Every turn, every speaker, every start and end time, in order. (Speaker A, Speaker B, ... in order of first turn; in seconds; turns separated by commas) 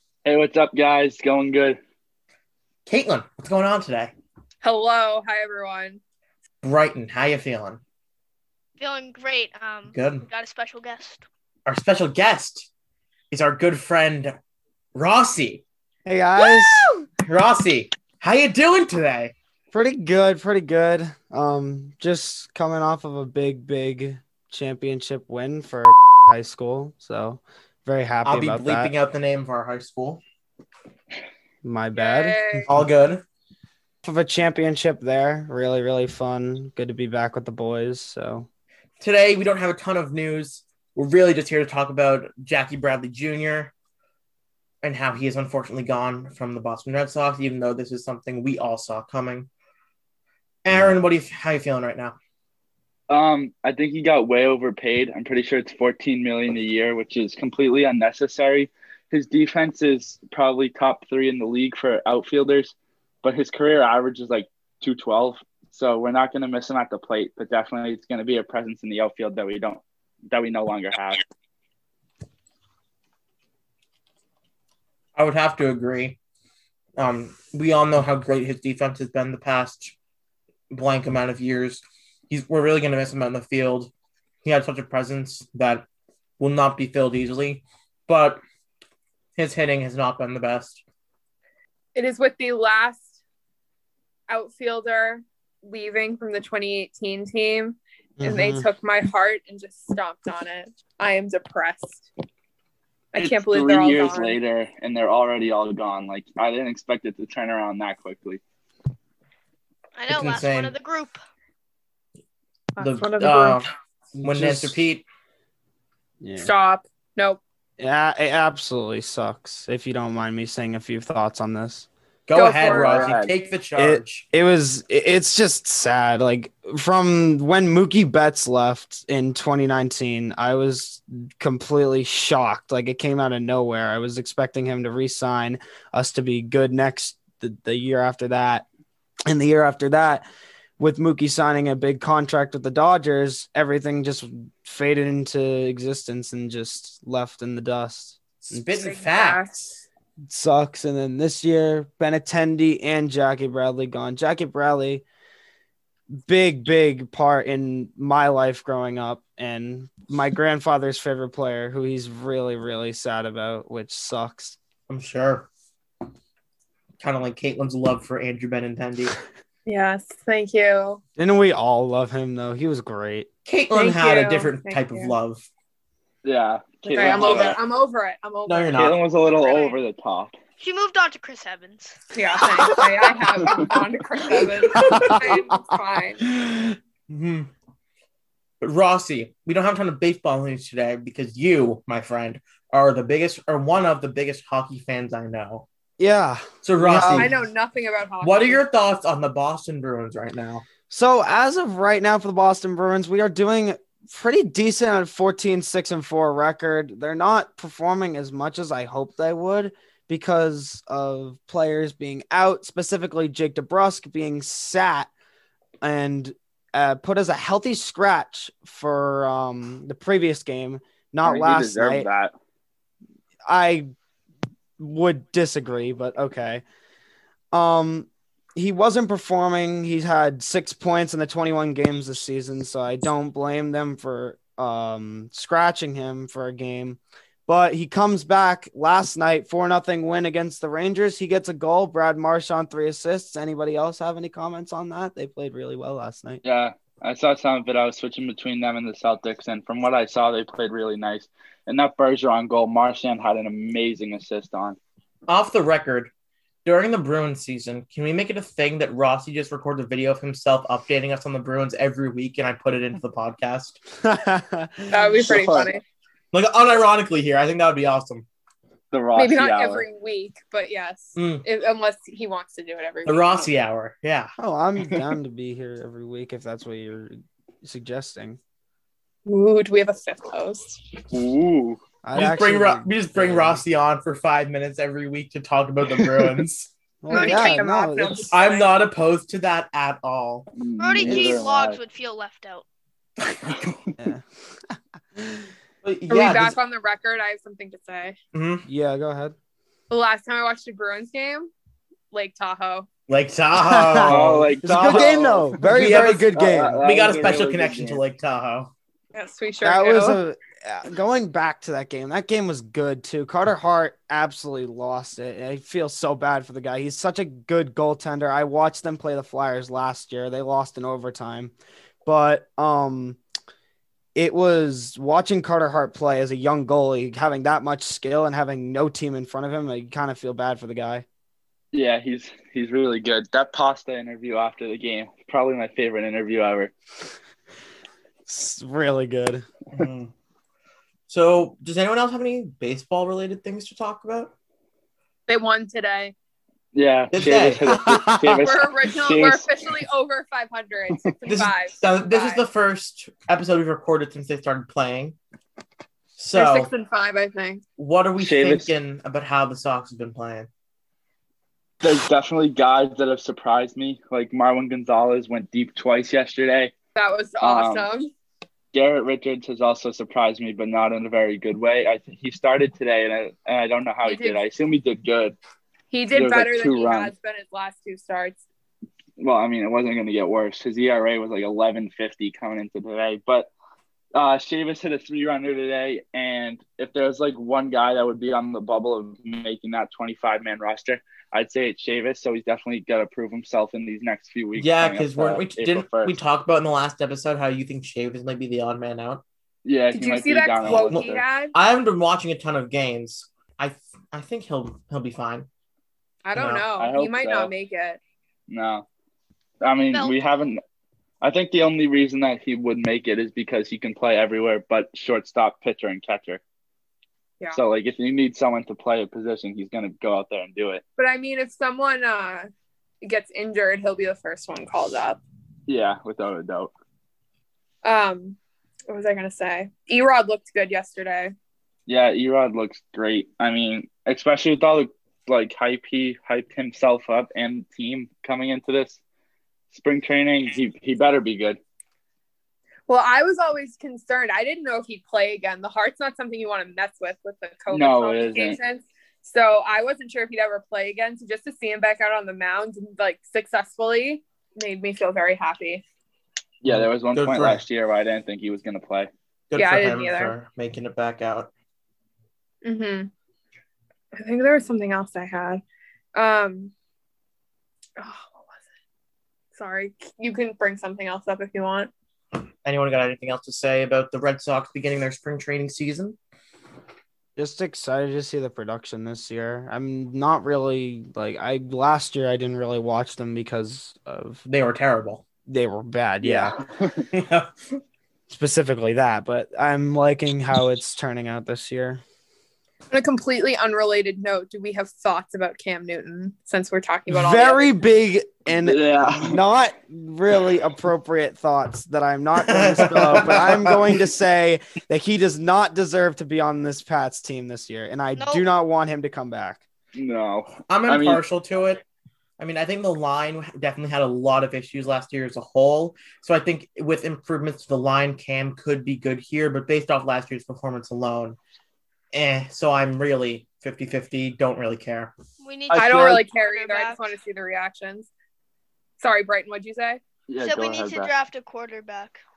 Speaker A: 0.2-1.8, Speaker B: 2.9-4.1, Speaker C: 4.6-6.0, Speaker B: 6.6-7.8, Speaker D: 8.8-11.2, Speaker B: 9.9-10.3, Speaker B: 11.7-12.7, Speaker B: 13.3-14.3, Speaker B: 14.9-15.6, Speaker E: 16.1-16.9, Speaker B: 17.2-19.3, Speaker E: 19.7-28.9, Speaker B: 28.2-30.2, Speaker E: 31.6-32.9, Speaker C: 31.9-32.7, Speaker B: 32.7-33.2, Speaker E: 34.0-38.5, Speaker B: 39.0-43.7, Speaker B: 44.8-49.5, Speaker B: 50.6-52.2, Speaker A: 53.1-71.2, Speaker B: 75.2-76.2, Speaker B: 77.0-80.0, Speaker B: 80.7-83.9, Speaker B: 84.4-85.8, Speaker B: 86.4-88.4, Speaker B: 89.4-90.8, Speaker C: 91.9-93.2, Speaker C: 94.3-102.1, Speaker E: 98.2-98.7, Speaker C: 103.1-104.4, Speaker A: 103.2-108.4, Speaker D: 110.0-111.2, Speaker B: 110.1-110.7, Speaker C: 112.8-113.6, Speaker B: 112.8-113.7, Speaker E: 114.1-114.8, Speaker B: 114.2-115.0, Speaker E: 116.2-116.5, Speaker C: 116.4-117.4, Speaker E: 117.8-121.9, Speaker B: 122.3-124.2, Speaker C: 122.3-123.1, Speaker A: 122.6-123.3, Speaker E: 123.8-138.7, Speaker E: 139.3-140.2, Speaker E: 140.8-148.7, Speaker B: 148.4-149.8, Speaker C: 148.8-149.5, Speaker E: 150.3-155.0, Speaker E: 156.2-164.6, Speaker B: 164.9-165.5, Speaker B: 167.0-169.2, Speaker C: 169.7-171.0, Speaker E: 171.2-173.3, Speaker B: 173.4-175.5, Speaker C: 173.7-175.2, Speaker A: 176.2-177.6, Speaker C: 176.8-178.9, Speaker B: 177.0-177.5, Speaker B: 178.5-179.0, Speaker A: 178.7-180.3, Speaker D: 179.4-179.8, Speaker D: 180.6-182.0, Speaker C: 182.1-186.2, Speaker E: 182.6-182.9, Speaker E: 184.7-185.4, Speaker E: 186.4-186.7, Speaker B: 187.1-187.5, Speaker B: 188.6-195.7, Speaker E: 196.0-197.3, Speaker B: 196.6-197.3, Speaker C: 197.1-198.6, Speaker B: 198.2-200.6, Speaker E: 200.9-215.1, Speaker E: 215.8-222.1, Speaker A: 221.2-222.3, Speaker E: 223.5-223.9, Speaker E: 224.8-226.6, Speaker E: 227.5-246.4, Speaker A: 246.4-254.8, Speaker B: 255.3-256.1, Speaker B: 256.6-263.8, Speaker E: 264.0-265.6, Speaker C: 264.9-265.8, Speaker A: 265.3-265.6, Speaker B: 266.3-268.3, Speaker A: 268.9-269.8, Speaker C: 269.1-273.5, Speaker B: 271.1-271.4, Speaker B: 273.0-274.3, Speaker E: 274.4-278.4, Speaker C: 279.2-280.8, Speaker A: 281.1-281.8, Speaker E: 282.0-283.6, Speaker B: 282.1-286.7, Speaker A: 286.0-286.4, Speaker E: 287.0-288.2, Speaker C: 287.1-288.7, Speaker D: 287.1-287.5, Speaker B: 288.3-290.5, Speaker A: 290.5-291.8, Speaker D: 290.8-292.6, Speaker A: 293.2-293.8, Speaker E: 294.0-294.2, Speaker E: 295.1-295.5, Speaker B: 295.8-296.5, Speaker C: 296.1-298.1, Speaker B: 298.3-298.6, Speaker E: 298.6-299.3, Speaker C: 299.9-301.5, Speaker C: 302.1-302.9, Speaker B: 303.1-304.9, Speaker E: 303.6-306.8, Speaker A: 304.1-308.0, Speaker B: 305.6-306.3, Speaker B: 306.8-308.7, Speaker C: 309.1-310.2, Speaker E: 309.6-321.5, Speaker E: 322.0-323.2, Speaker E: 324.1-331.0, Speaker A: 331.7-336.7, Speaker E: 338.3-339.9, Speaker B: 339.7-340.1, Speaker B: 341.1-344.3, Speaker C: 345.3-346.1, Speaker A: 346.7-349.5, Speaker B: 347.1-347.6, Speaker E: 347.6-348.4, Speaker C: 348.4-352.4, Speaker B: 351.2-355.2, Speaker B: 356.2-356.7, Speaker C: 356.3-357.6, Speaker B: 357.8-360.5, Speaker A: 358.2-358.7, Speaker A: 361.8-366.7, Speaker C: 366.9-368.1, Speaker A: 367.4-367.9, Speaker A: 368.7-375.4, Speaker C: 374.0-374.4, Speaker C: 375.9-378.4, Speaker A: 376.1-377.1, Speaker A: 379.2-383.5, Speaker A: 384.1-396.1, Speaker B: 394.6-399.2, Speaker A: 399.6-401.2, Speaker C: 399.9-401.5, Speaker B: 400.6-405.5, Speaker C: 406.2-408.0, Speaker B: 406.3-406.7, Speaker A: 406.8-407.5, Speaker A: 408.5-408.9, Speaker A: 409.6-410.6, Speaker D: 409.9-410.5, Speaker A: 411.2-416.4, Speaker A: 417.5-420.8, Speaker C: 421.0-422.4, Speaker C: 423.0-425.2, Speaker A: 425.7-426.7, Speaker C: 427.8-428.4, Speaker C: 428.9-431.3, Speaker A: 431.9-439.0, Speaker A: 439.7-441.6, Speaker C: 442.9-455.8, Speaker A: 447.7-448.6, Speaker A: 456.6-459.1, Speaker B: 456.6-457.6, Speaker B: 459.5-461.5, Speaker C: 459.6-460.3, Speaker C: 462.6-463.1, Speaker C: 464.1-465.6, Speaker C: 466.1-466.7, Speaker C: 468.0-468.6, Speaker C: 469.5-471.9, Speaker B: 472.6-476.2, Speaker E: 477.4-484.4, Speaker B: 484.4-485.2, Speaker E: 485.5-486.6, Speaker A: 486.2-487.1, Speaker B: 487.1-487.5, Speaker E: 488.3-492.0, Speaker C: 492.9-497.7, Speaker E: 497.1-509.6, Speaker A: 498.5-499.4, Speaker B: 502.5-503.8, Speaker D: 508.2-508.4, Speaker A: 509.9-511.2, Speaker B: 510.7-511.8, Speaker B: 512.4-521.4, Speaker B: 522.1-525.1, Speaker D: 525.4-527.2, Speaker C: 525.7-528.1, Speaker C: 529.0-530.0, Speaker A: 530.3-531.1, Speaker D: 530.4-532.2